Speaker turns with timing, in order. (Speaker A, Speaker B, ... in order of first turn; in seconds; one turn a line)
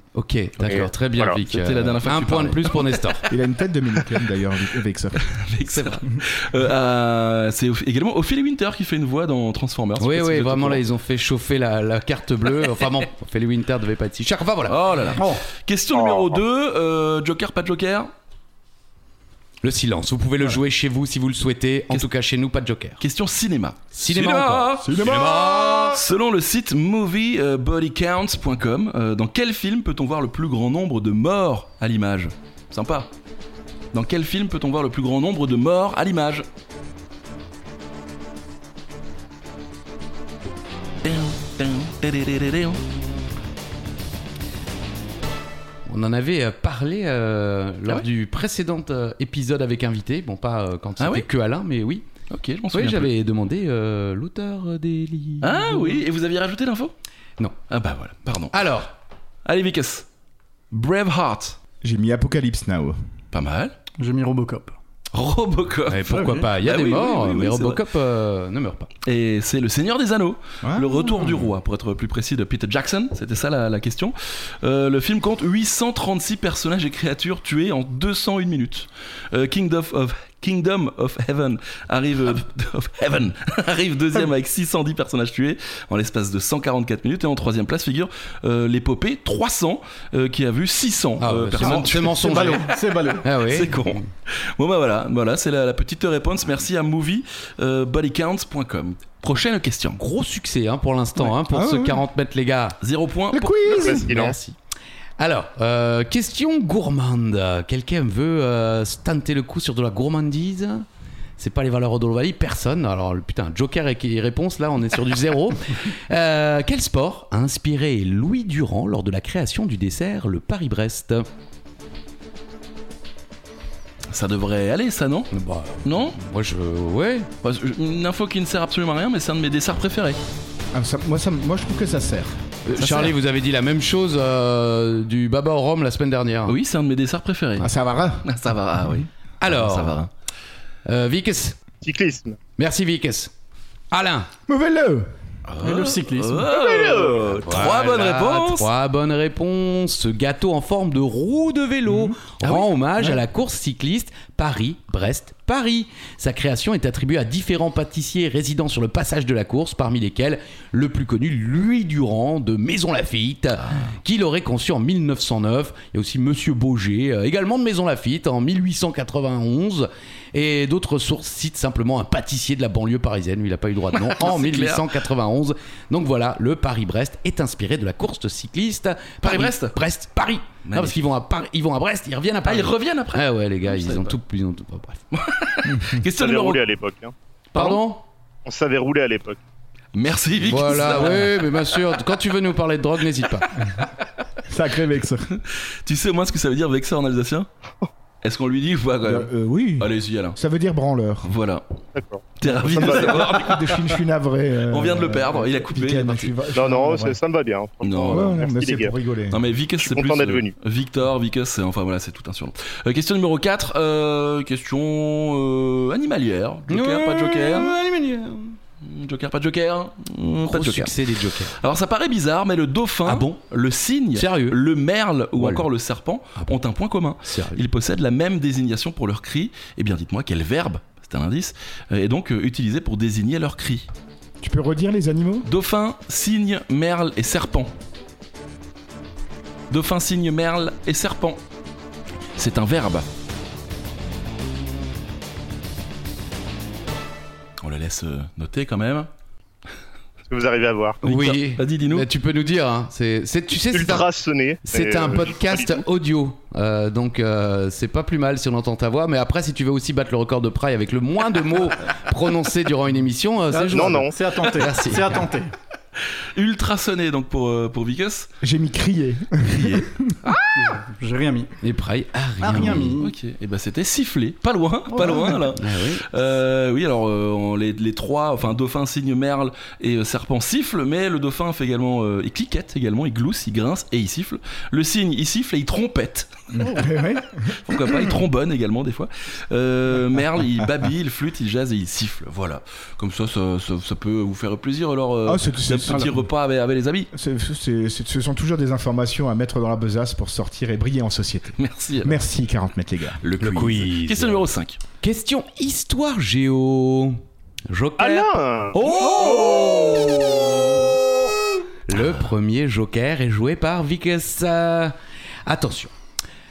Speaker A: 0.1-3.2
Speaker B: 0.7-1.4
Speaker C: 1.5-3.0
Speaker D: 3.3-5.3
Speaker C: 5.3-10.8
Speaker A: 5.8-6.0
Speaker A: 10.0-14.8
Speaker C: 14.7-18.1
Speaker E: 15.2-15.4
Speaker B: 15.9-16.4
Speaker A: 19.6-23.0
Speaker C: 23.0-25.2
Speaker A: 23.9-26.0
Speaker D: 24.8-26.0
Speaker C: 25.9-33.1
Speaker C: 33.9-36.5
Speaker C: 41.0-42.8
Speaker A: 45.9-52.1
Speaker C: 51.0-51.3
Speaker C: 52.3-53.1
Speaker A: 52.7-56.0
Speaker C: 55.4-56.9
Speaker C: 57.7-58.6
Speaker A: 58.5-58.9
Speaker C: 59.5-60.1
Speaker C: 60.7-61.6
Speaker D: 61.8-63.0
Speaker C: 63.3-63.8
Speaker E: 64.0-64.8
Speaker C: 65.1-67.8
Speaker A: 65.9-68.9
Speaker E: 66.1-66.4
Speaker C: 69.0-92.6
Speaker D: 70.6-71.5
Speaker A: 91.2-94.0
Speaker E: 92.0-93.3
Speaker C: 93.3-94.0
Speaker C: 94.6-100.0
Speaker A: 100.0-102.8
Speaker D: 101.5-102.0
Speaker C: 102.8-104.0
Speaker D: 103.3-104.1
Speaker B: 103.7-104.4
Speaker A: 103.8-104.6
Speaker A: 105.2-110.9
Speaker A: 111.4-121.3
Speaker C: 124.1-125.3
Speaker A: 125.3-127.3
Speaker C: 125.8-126.2
Speaker C: 127.4-130.2
Speaker D: 130.7-132.4
Speaker A: 132.7-136.6
Speaker C: 132.8-133.1
Speaker C: 136.5-137.7
Speaker D: 137.6-138.3
Speaker C: 138.2-140.1
Speaker A: 139.4-140.0
Speaker A: 140.9-141.6
Speaker B: 141.8-142.4
Speaker A: 142.6-143.3
Speaker A: 143.9-144.3
Speaker D: 144.5-145.1
Speaker C: 145.5-148.7
Speaker E: 145.6-146.5
Speaker B: 146.5-147.2
Speaker A: 147.4-185.0
Speaker C: 152.4-152.7
Speaker C: 173.9-174.9
Speaker C: 179.2-179.8
Speaker C: 180.7-181.0
Speaker C: 182.4-184.2
Speaker C: 185.1-186.6
Speaker D: 185.7-186.0
Speaker B: 186.1-187.1
Speaker A: 187.5-188.0
Speaker B: 188.5-189.4
Speaker C: 189.9-191.3
Speaker A: 190.4-193.5
Speaker D: 194.5-195.3
Speaker C: 195.3-197.5
Speaker C: 198.2-200.4
Speaker D: 199.0-201.3
Speaker C: 201.2-201.7
Speaker B: 201.9-202.3
Speaker C: 202.4-203.8
Speaker D: 202.4-207.2
Speaker C: 204.7-206.3
Speaker B: 206.5-208.9
Speaker C: 207.8-208.4
Speaker D: 208.1-209.4
Speaker C: 209.3-217.7
Speaker B: 209.8-210.5
Speaker A: 216.7-218.6
Speaker C: 218.8-220.9
Speaker A: 220.4-221.6
Speaker C: 221.6-233.9
Speaker A: 223.1-223.4
Speaker A: 224.1-224.6
Speaker A: 225.3-225.7
Speaker A: 227.2-227.6
Speaker D: 234.4-235.5
Speaker C: 235.4-237.7
Speaker C: 239.7-241.4
Speaker C: 242.4-243.1
Speaker C: 247.6-249.1
Speaker B: 250.3-251.0
Speaker C: 251.0-252.1
Speaker A: 251.0-254.1
Speaker B: 253.7-255.8
Speaker A: 254.6-265.3
Speaker E: 263.5-265.5
Speaker B: 263.7-264.1
Speaker C: 264.6-264.9
Speaker C: 266.4-268.3
Speaker D: 268.4-270.1
Speaker C: 269.5-270.3
Speaker E: 270.6-271.5
Speaker A: 271.6-273.0
Speaker E: 272.4-273.1
Speaker C: 272.7-286.8
Speaker E: 274.9-275.4
Speaker A: 275.5-276.1
Speaker D: 286.5-288.0
Speaker C: 287.5-297.1
Speaker D: 295.3-296.3
Speaker D: 297.1-303.2
Speaker C: 301.6-302.2
Speaker C: 303.2-304.8
Speaker A: 303.4-304.4
Speaker A: 305.0-310.8
Speaker B: 308.0-308.8
Speaker C: 308.8-309.8
Speaker A: 311.9-315.9